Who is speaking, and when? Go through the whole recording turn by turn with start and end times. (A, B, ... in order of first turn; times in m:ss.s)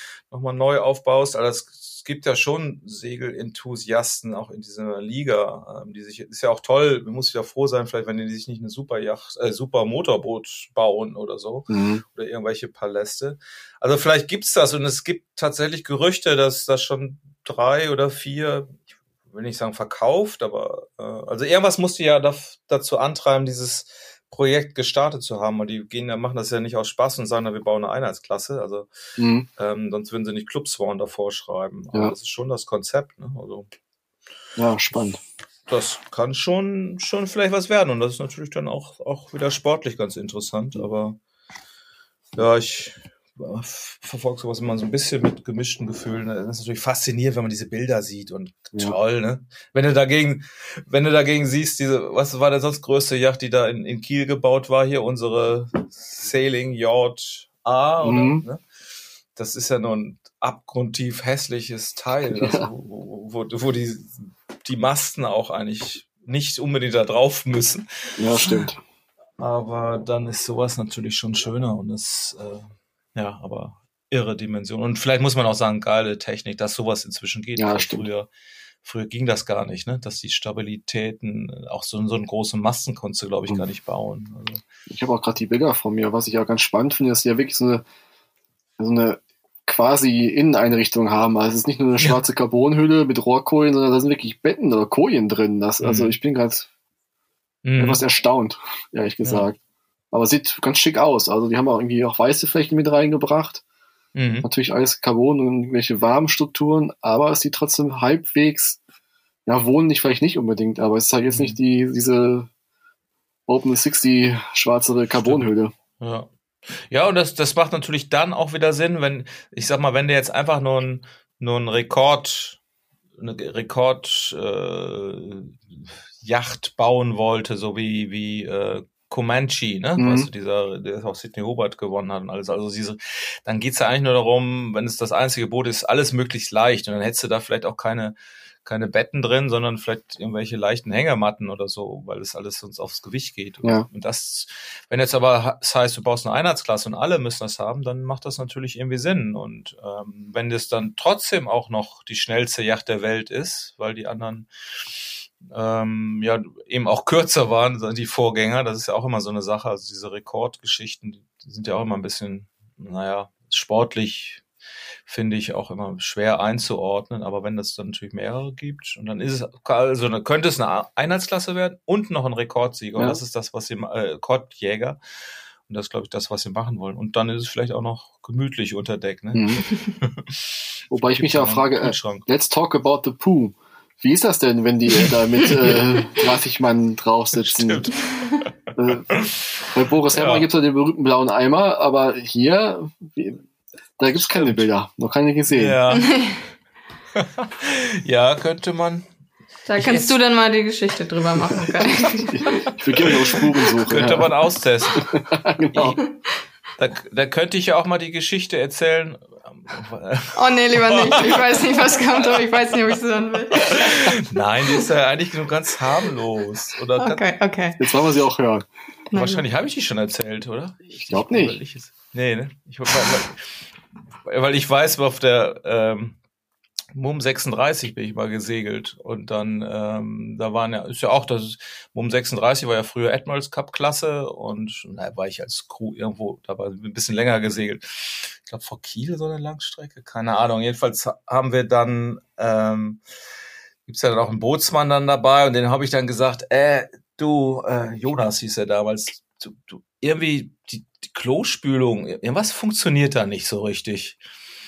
0:00.3-0:28.9 A
0:11.7-0:12.0 B
0:29.2-0:29.5 B
0:29.6-0:33.7 A
0:34.6-0:35.2 B
0:35.7-0:41.2 A
0:42.3-0:58.6 A
0:58.0-0:58.4 B
0:59.3-1:07.9 A
1:02.4-1:02.7 B
1:08.2-1:08.8 B
1:08.4-1:08.7 A
1:09.4-1:18.3 A
1:17.6-1:18.0 B
1:18.8-1:24.6 A
1:24.9-1:27.8 B
1:28.8-1:36.7 B
1:35.8-1:36.2 A
1:37.6-1:38.0 A
1:37.8-1:39.6 B
1:40.1-1:43.6 B
1:44.1-1:44.5 A
1:44.4-1:48.8 B
1:49.4-1:52.5 B
1:51.3-1:51.6 A
1:53.5-1:55.7 B
1:55.2-1:55.5 A
1:56.0-2:02.6 A
2:03.2-2:34.5 A
2:10.0-2:10.3 B
2:35.4-2:44.4 A
2:45.0-2:55.0 A
2:55.7-3:02.3 A
2:59.3-2:59.6 B
3:00.9-3:07.9 B
3:04.9-3:06.0 A
3:07.4-3:08.5 A
3:08.7-3:13.4 B
3:09.1-3:09.3 A
3:10.1-3:10.5 A
3:14.0-3:15.8 B
3:14.1-3:14.7 A
3:15.5-3:16.1 A
3:15.9-3:16.4 C
3:17.1-3:19.1 A
3:19.6-3:22.7 C
3:19.8-3:20.2 A
3:22.2-3:24.3 B
3:23.0-3:25.1 A
3:24.9-3:26.0 B
3:25.7-3:26.0 A
3:26.8-3:32.4 A
3:30.3-3:34.1 C
3:33.6-3:37.3 A
3:37.0-3:37.8 C
3:37.8-3:38.6 B
3:39.1-3:39.4 C
3:39.1-3:43.5 A
3:41.0-3:41.6 B
3:44.2-3:46.2 A
3:46.9-4:03.0 A
4:03.9-4:14.2 A